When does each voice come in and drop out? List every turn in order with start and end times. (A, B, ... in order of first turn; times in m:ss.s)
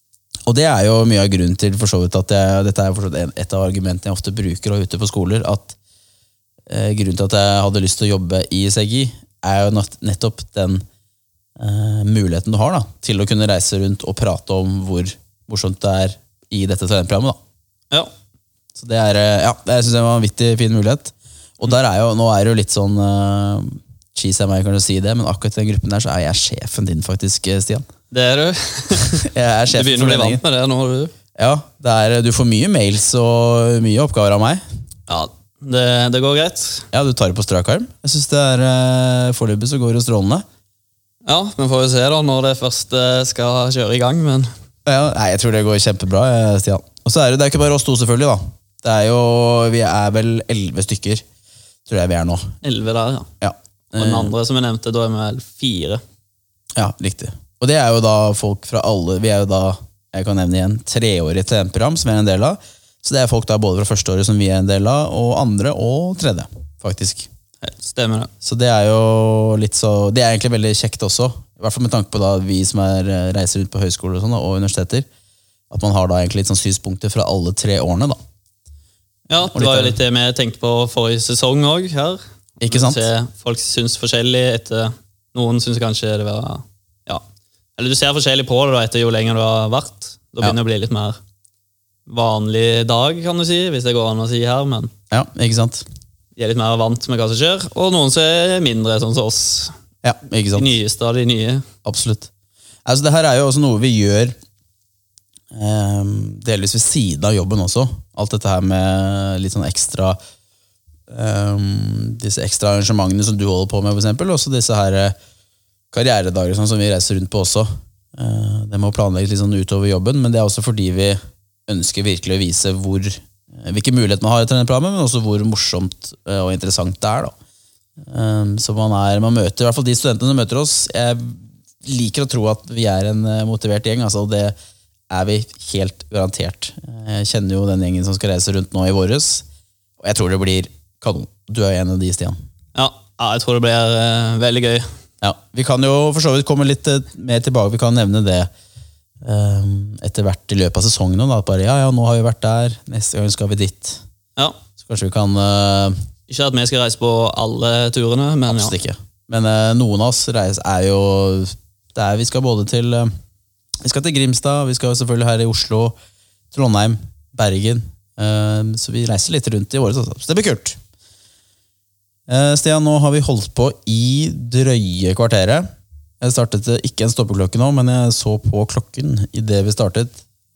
0:00.5-0:05.8 A
0:06.7-0:10.8 A
0:11.6-0:17.4 A
0:18.8-0:27.9 A
0:28.1-0:31.1 B
0:29.1-0:30.4 A
0:31.4-0:34.6 A
0:35.1-0:36.9 B
0:36.9-0:40.4 A
0:41.3-0:44.5 B
0:44.9-0:51.2 A
0:51.9-0:52.5 A
0:52.6-0:53.3 B
0:53.4-0:54.3 A
0:53.9-0:56.0 B
0:56.8-1:07.3 A
1:07.6-1:08.3 B
1:08.4-1:15.1 A
1:15.7-1:18.2 A
1:19.3-1:27.2 B
1:19.4-1:20.0 A
1:22.6-1:23.1 A
1:27.8-1:31.2 B
1:32.1-1:34.9 B
1:35.1-1:35.8 A
1:36.4-1:39.7 B
1:40.0-1:40.8 A
1:40.6-1:41.6 B
1:41.8-1:42.3 A
1:42.9-1:44.4 A
1:45.5-1:50.2 A
1:51.1-1:55.2 A
1:55.9-2:07.3 A
2:08.0-2:14.5 A
2:15.1-2:19.4 A
2:20.0-2:22.4 A
2:22.8-2:24.9 B
2:25.2-2:28.5 A
2:29.2-2:34.0 A
2:34.8-2:36.0 A
2:36.3-2:38.8 B
2:38.5-2:43.1 A
2:43.8-2:45.9 A
2:46.5-2:50.8 A
2:52.3-2:55.7 A
2:56.2-3:00.2 A